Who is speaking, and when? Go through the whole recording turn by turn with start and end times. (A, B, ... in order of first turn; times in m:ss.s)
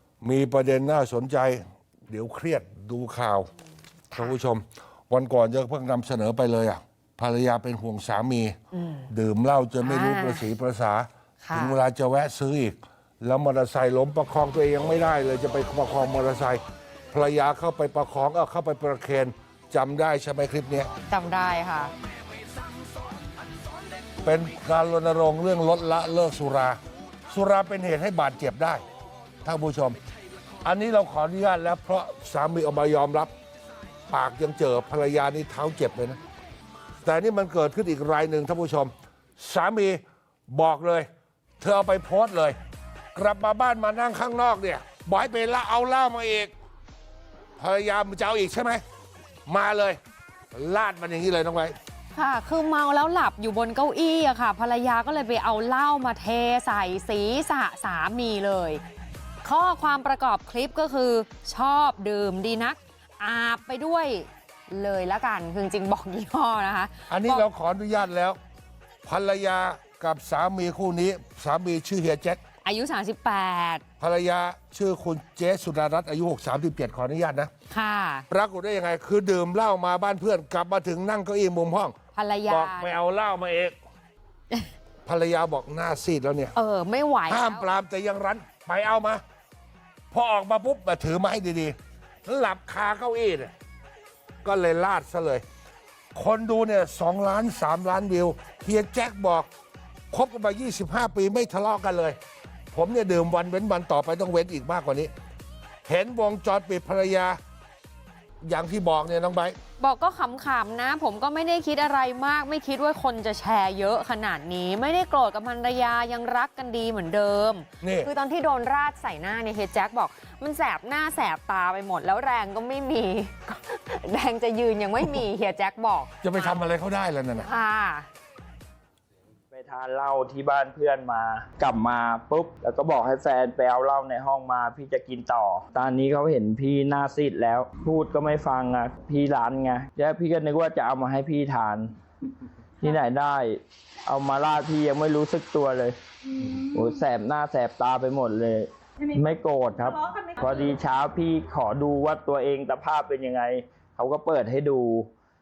0:00.2-0:03.5 A
0:04.1-0:08.6 A
0:08.8-0:09.1 B
0:09.1-0:20.9 A
0:09.8-0:10.4 B
0:11.4-0:11.8 B
0:21.1-0:21.9 B
0:24.2-0:28.8 A
0:29.4-0:30.0 A
0:30.6-0:33.3 A
0:34.1-0:36.2 A
0:37.0-0:41.1 A
0:41.6-0:42.6 A
0:43.1-0:46.5 A
0:47.6-0:48.8 A
0:49.4-0:50.0 A
0:50.5-0:51.8 A
0:52.1-0:58.8 B
0:59.4-1:07.5 B
1:07.1-1:08.4 A
1:09.0-1:12.4 A
1:12.6-1:13.8 B
1:14.0-1:17.5 A
1:17.7-1:18.3 B
1:18.3-1:22.0 A
1:22.1-1:23.0 B
1:22.5-1:23.8 A
1:25.0-1:26.5 A
1:26.6-1:27.6 B
1:27.3-1:29.2 A
1:30.1-1:33.5 A
1:34.4-1:35.4 A
1:36.1-1:39.5 A
1:40.1-1:42.2 A
1:42.7-1:45.1 A
1:45.8-1:47.4 A
1:48.4-1:49.6 A
1:49.8-2:06.7 B
1:57.8-1:58.1 A
2:06.2-2:07.5 A
2:07.4-2:08.1 B
2:09.5-2:21.9 C
2:22.8-2:26.0 C
2:26.5-2:35.1 C